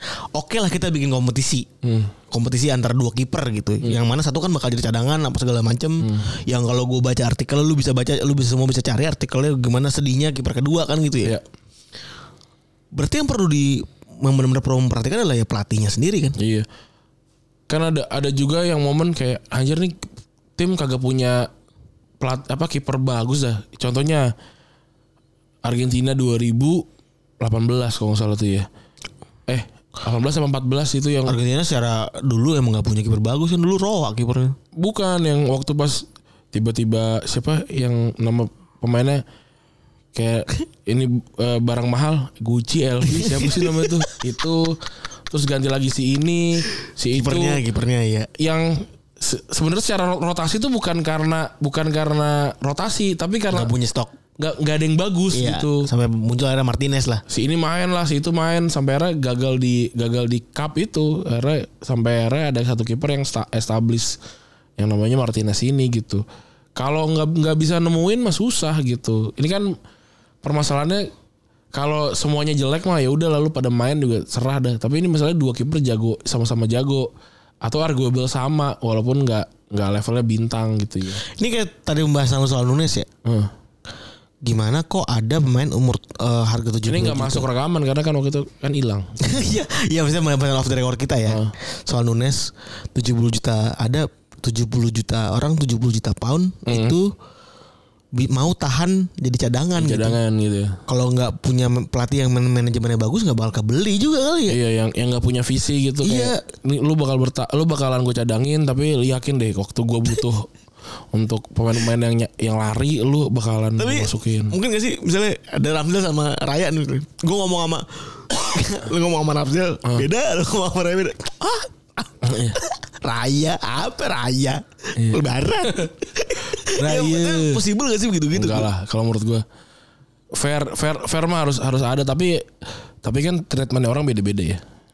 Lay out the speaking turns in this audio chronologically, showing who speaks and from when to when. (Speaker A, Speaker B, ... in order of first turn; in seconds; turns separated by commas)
Speaker A: 0.3-1.7, Speaker B: 1.8-2.1, Speaker A: 2.3-11.3, Speaker B: 6.0-6.3, Speaker A: 12.9-16.4, Speaker B: 16.4-16.7, Speaker B: 17.7-20.1, Speaker B: 20.6-21.5, Speaker B: 22.2-24.3, Speaker B: 25.6-26.9, Speaker B: 27.4-28.7, Speaker B: 29.5-31.4, Speaker A: 31.3-34.6, Speaker B: 34.8-39.2, Speaker B: 40.1-47.6, Speaker A: 43.1-44.1, Speaker A: 47.1-48.3, Speaker B: 48.4-53.7, Speaker A: 53.5-54.1, Speaker B: 54.4-55.9, Speaker A: 55.3-57.2, Speaker B: 57.3-64.2, Speaker B: 64.8-66.2, Speaker B: 66.8-69.8, Speaker B: 70.4-71.1, Speaker B: 71.7-77.1, Speaker B: 77.6-81.2, Speaker A: 81.2-83.1, Speaker B: 83.2-83.5, Speaker A: 84.4-87.5, Speaker B: 86.9-89.2, Speaker A: 89.2-97.1, Speaker B: 91.3-91.5, Speaker B: 96.7-97.0, Speaker A: 98.1-100.2, Speaker B: 99.8-100.8, Speaker A: 100.9-104.6, Speaker B: 104.5-110.5, Speaker A: 106.0-106.4, Speaker B: 111.1-114.5, Speaker A: 113.8-128.7, Speaker B: 122.2-122.6, Speaker B: 125.0-125.9, Speaker B: 126.5-127.6, Speaker B: 128.3-129.4, Speaker B: 130.3-132.5, Speaker B: 133.0-134.6